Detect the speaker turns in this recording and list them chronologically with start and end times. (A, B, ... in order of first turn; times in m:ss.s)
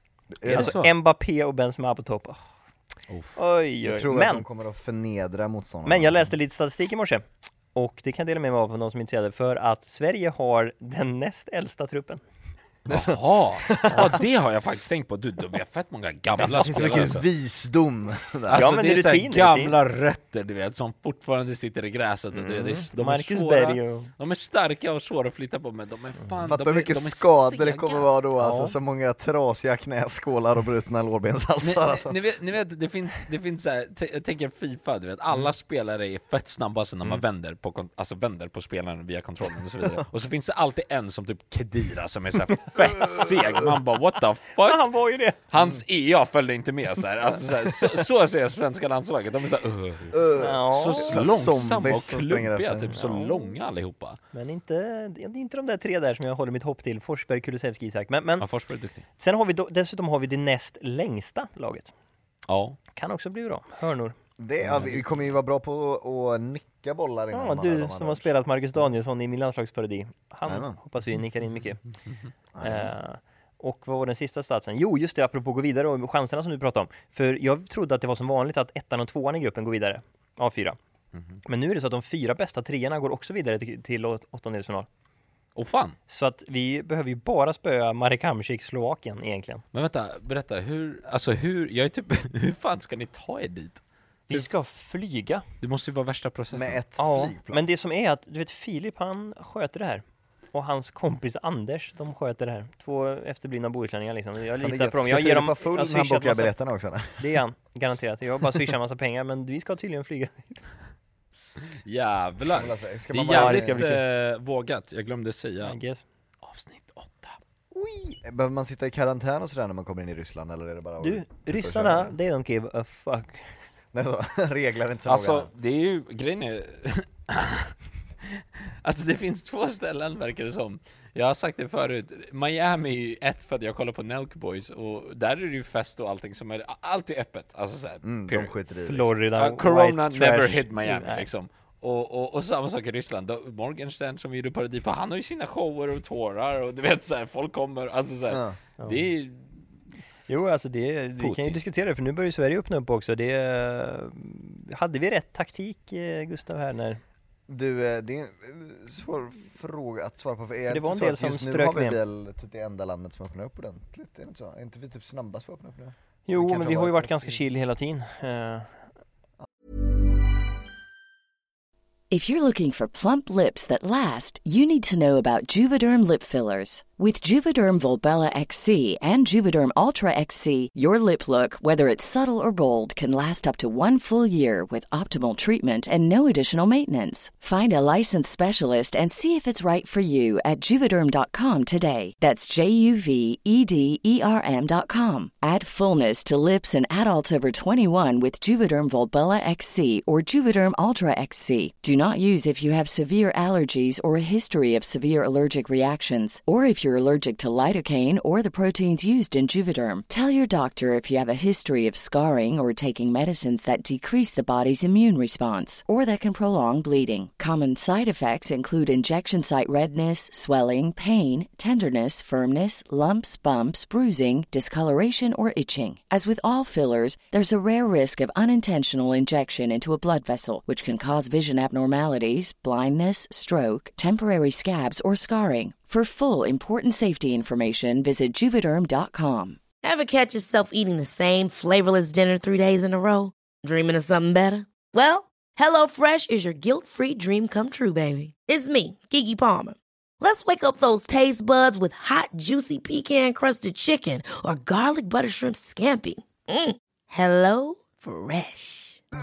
0:00.3-0:00.8 A
0:00.4-0:02.4 B
0:00.5-0:00.9 C
0:03.1-0:03.3 C
0:03.4-0:04.4 B
0:03.8-0:06.3 A
0:05.8-0:12.2 B
0:12.8-0:14.1 A
0:12.9-0:17.2 C
0:16.4-0:18.7 A
0:18.5-0:28.1 C
0:18.5-0:19.7 B
0:22.3-0:24.1 B
0:26.4-0:32.2 A
0:28.4-0:28.8 B
0:31.6-0:44.9 C
0:44.6-0:45.4 B
0:45.5-0:54.2 C
0:50.1-0:53.0 A
0:50.4-0:51.2 B
0:52.9-0:53.5 B
0:54.3-0:58.4 B
0:58.4-0:59.0 C
0:59.2-1:01.9 B
1:02.5-1:02.8 C
1:02.9-1:04.9 B
1:04.4-1:08.3 A
1:07.3-1:11.8 B
1:10.5-1:10.8 A
1:12.5-1:12.9 A
1:12.6-1:20.8 B
1:21.4-1:24.9 B
1:25.6-1:26.0 C
1:26.1-1:29.6 B
1:29.7-1:33.8 C
1:34.3-1:35.4 B
1:35.6-1:36.8 C
1:36.5-1:37.6 A
1:37.0-1:46.5 B
1:44.6-1:47.2 A
1:47.2-1:50.6 B
1:51.8-1:55.8 C
1:52.5-1:53.9 A
1:53.3-1:54.0 B
1:55.6-1:56.0 B
1:56.4-1:57.4 C
1:57.7-2:02.1 A
2:01.0-2:03.5 B
2:03.9-2:05.5 A
2:05.1-2:07.7 C
2:08.3-2:18.5 C
2:18.0-2:19.1 A
2:18.8-2:21.2 B
2:19.4-2:29.5 C
2:28.3-2:28.6 A
2:28.8-2:29.0 B
2:30.3-2:37.0 B
2:31.2-2:31.6 C
2:37.5-2:47.4 A
2:40.7-2:42.0 B
2:46.3-2:48.8 B
2:52.1-3:59.6 D
3:59.8-4:19.0 E